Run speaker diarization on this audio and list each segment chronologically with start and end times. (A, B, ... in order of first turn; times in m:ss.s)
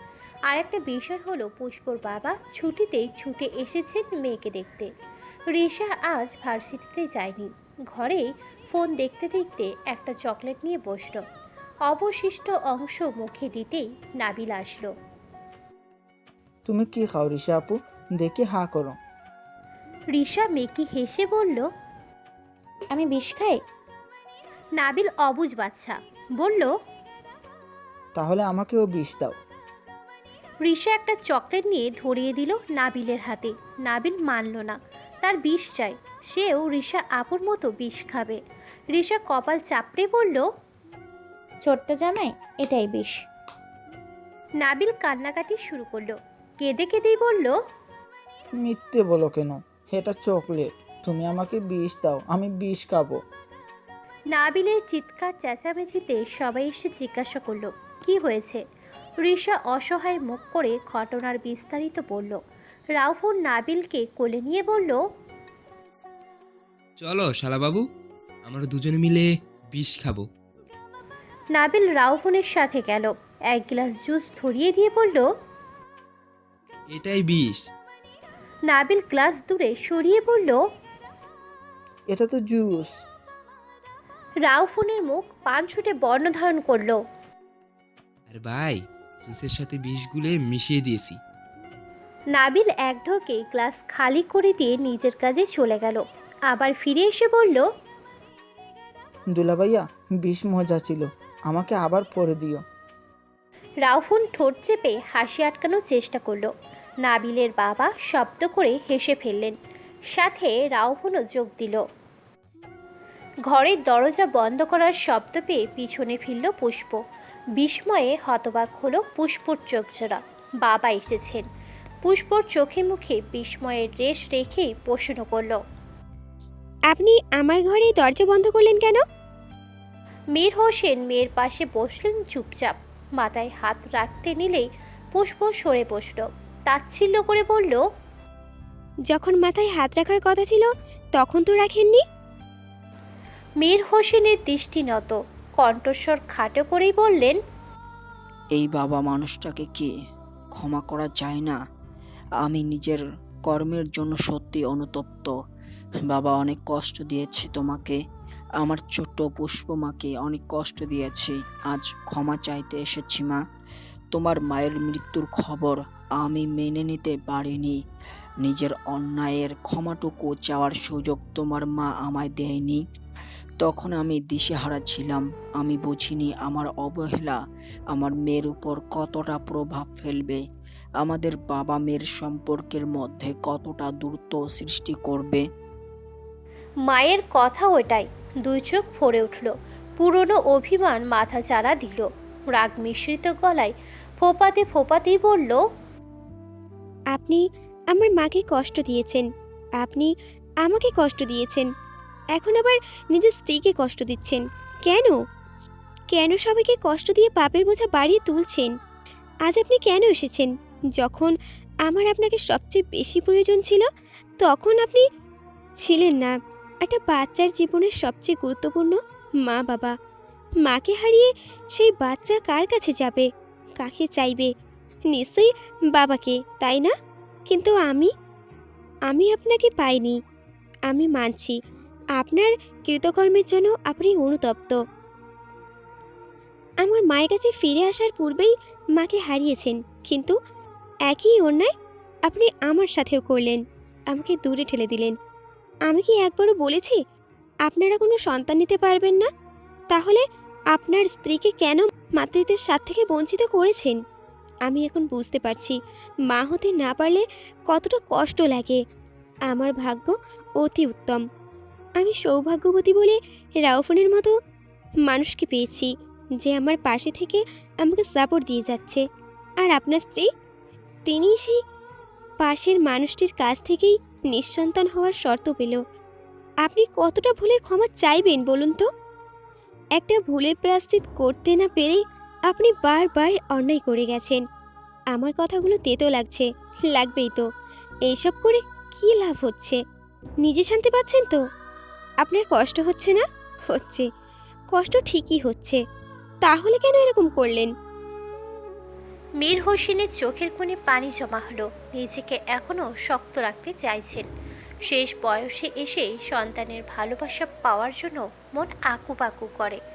0:00.5-0:04.9 A
0:05.5-0:11.2 A
0:11.8-0:14.9 A
0:16.7-0:19.0 B
0:20.1-0:21.7 A
0:22.9-0:23.6 C
0:24.8-0:26.7 A
0:28.2-0:29.3 B
0:30.6-0:38.4 A
0:38.9-0:40.4 A
0:41.6-0:43.2 C
0:44.6-0:47.5 A
0:48.6-0:53.2 B
0:54.3-0:58.6 A
0:59.2-1:02.4 A
1:03.0-1:05.0 A
1:07.0-1:07.8 D
1:08.4-1:10.2 D
1:11.5-1:15.2 A
1:16.9-1:17.6 D
1:18.7-1:20.6 A
1:22.1-1:22.9 B
1:24.4-1:27.0 A
1:28.3-1:31.2 D
1:32.3-1:37.6 A
1:39.3-1:42.6 B
1:43.8-1:46.5 A
1:47.0-1:49.5 A
1:50.1-1:51.8 A
1:53.5-1:57.0 A
1:57.6-2:01.4 A
2:02.0-2:05.6 A
2:06.9-2:09.0 E
2:10.3-2:17.8 A
2:19.1-2:22.0 E
2:23.6-2:27.4 A
2:28.5-2:29.9 F
2:30.6-2:31.6 F
2:32.4-2:35.3 F
2:36.0-2:38.0 F
2:38.6-2:43.4 F
2:44.1-2:47.8 F
2:48.4-2:52.8 F
2:53.6-2:57.4 F
2:57.9-3:00.4 F
3:01.0-3:05.4 F
3:06.9-3:15.6 A
3:17.1-3:19.3 E
3:19.8-3:20.1 E
3:20.6-3:21.7 E
3:22.3-3:25.2 E
3:26.1-3:28.7 E
3:29.4-3:31.3 E
3:31.8-3:33.8 E
3:34.4-3:35.0 E
3:35.8-3:39.9 E
3:40.6-3:43.3 E
3:43.8-3:44.5 E
3:45.1-3:46.9 E
3:47.5-3:48.1 E
3:49.1-3:50.2 E
3:50.9-3:51.6 E
3:52.2-3:54.8 E
3:56.8-4:00.3 E
4:01.1-4:01.7 E
4:02.3-4:03.6 E
4:04.1-4:05.1 E
4:05.9-4:07.0 E
4:07.7-4:09.3 E
4:09.9-4:14.0 E
4:14.7-4:15.8 E
4:16.3-4:18.8 E
4:19.5-4:21.2 E
4:22.0-4:24.3 E
4:25.1-4:29.0 E
4:29.6-4:30.3 E
4:31.1-4:31.6 E
4:32.4-4:35.8 E
4:36.6-4:38.8 E
4:40.0-4:44.4 E
4:45.1-4:47.4 E
4:48.1-4:49.8 E
4:50.4-4:51.4 E
4:52.2-4:54.1 E
4:54.7-4:55.8 E
4:56.4-4:57.7 E
4:59.4-5:04.3 A
5:04.9-5:09.8 A